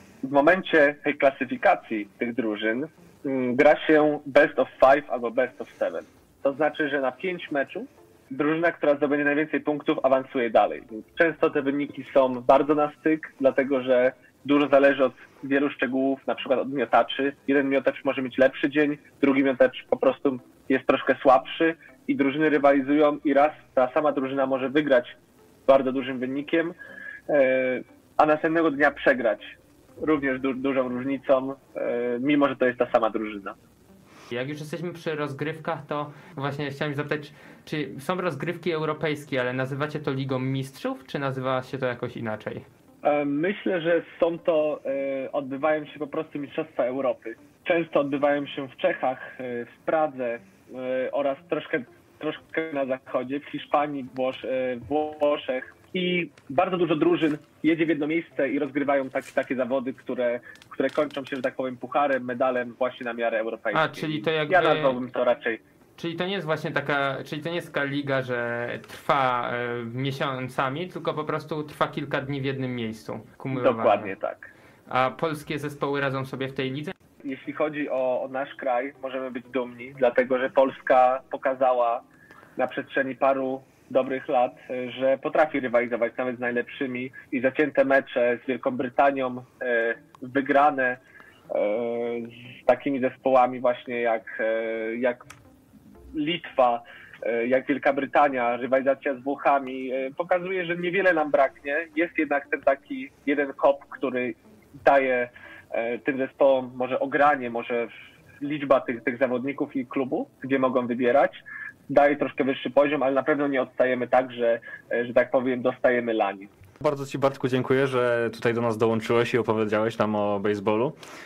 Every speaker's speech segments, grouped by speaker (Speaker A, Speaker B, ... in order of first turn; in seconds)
Speaker A: 0.2-26.8, 27.3-33.6, 43.0-65.6, 73.5-74.5, 77.2-82.0, 82.6-95.2, 96.1-116.5
Speaker B: 34.3-42.6, 63.7-65.0, 66.0-74.1, 74.9-76.9
Speaker C: 116.8-121.0